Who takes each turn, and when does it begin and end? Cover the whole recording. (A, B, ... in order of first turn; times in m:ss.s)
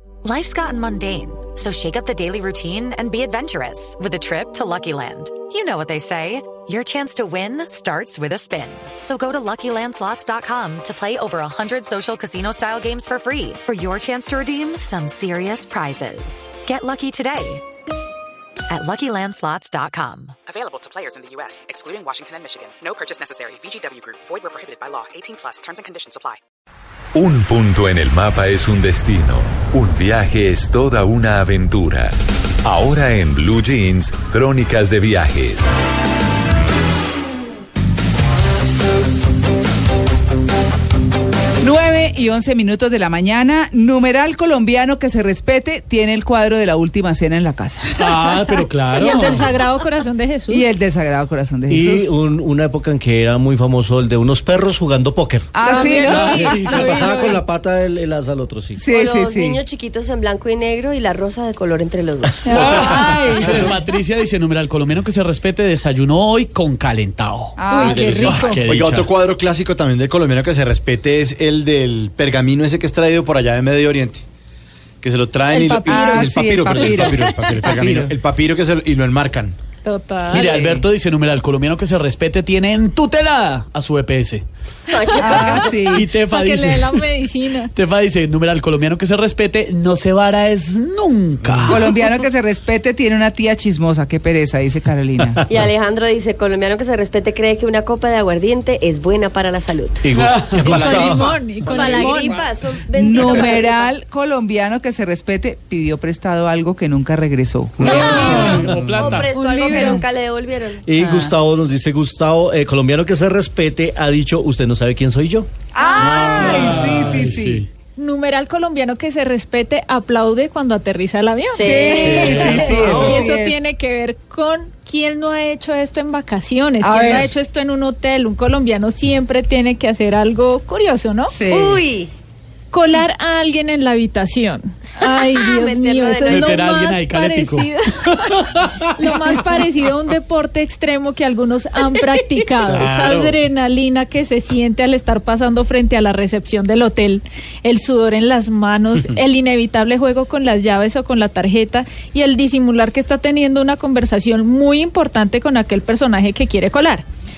0:00.2-0:17.6 A
0:18.7-0:20.4 A
0:20.5-0:26.4 B
0:27.1-0:35.7 C
0:41.6-0:48.3 D
0:48.0-0:49.5 E
0:49.0-0:50.7 F
0:50.5-0:52.1 D
0:51.7-0:58.8 G
0:55.5-0:57.3 D
0:55.6-0:57.4 F
0:55.7-0:57.2 E
0:58.8-0:59.6 D
0:58.9-1:02.7 H
1:02.5-1:03.8 D
1:02.5-1:09.1 E
1:02.6-1:03.0 F
1:07.6-1:08.6 D
1:07.7-1:08.5 F
1:07.9-1:14.2 I
1:15.0-1:19.6 I
1:15.5-1:17.7 F
1:15.9-1:18.2 D
1:19.8-1:20.6 F
1:20.3-1:24.4 E
1:20.4-1:20.7 H
1:24.9-1:25.8 H
1:25.2-1:26.1 D
1:25.3-1:27.0 E
1:26.0-1:27.7 F
1:27.7-1:32.0 E
1:31.7-1:35.4 D
1:35.5-1:40.1 H
1:40.0-1:41.3 G
1:40.1-1:41.2 E
1:40.6-1:42.5 F
1:41.7-1:43.9 H
1:43.0-1:49.1 D
1:47.8-1:49.3 E
1:47.9-1:50.9 H
1:49.1-1:50.0 F
1:49.6-1:50.0 D
1:50.9-1:55.5 G
1:51.0-1:51.3 D
1:55.8-1:57.7 D
1:56.0-1:56.4 H
1:56.0-1:57.7 E
1:58.0-2:11.4 F
2:01.6-2:02.2 H
2:01.7-2:03.6 D
2:01.9-2:03.2 E
2:06.8-2:07.3 D
2:11.3-2:11.8 D
2:11.5-2:12.1 H
2:12.7-2:18.3 F
2:15.3-2:16.5 H
2:16.3-2:19.4 E
2:19.0-2:37.0 F
2:22.6-2:23.4 I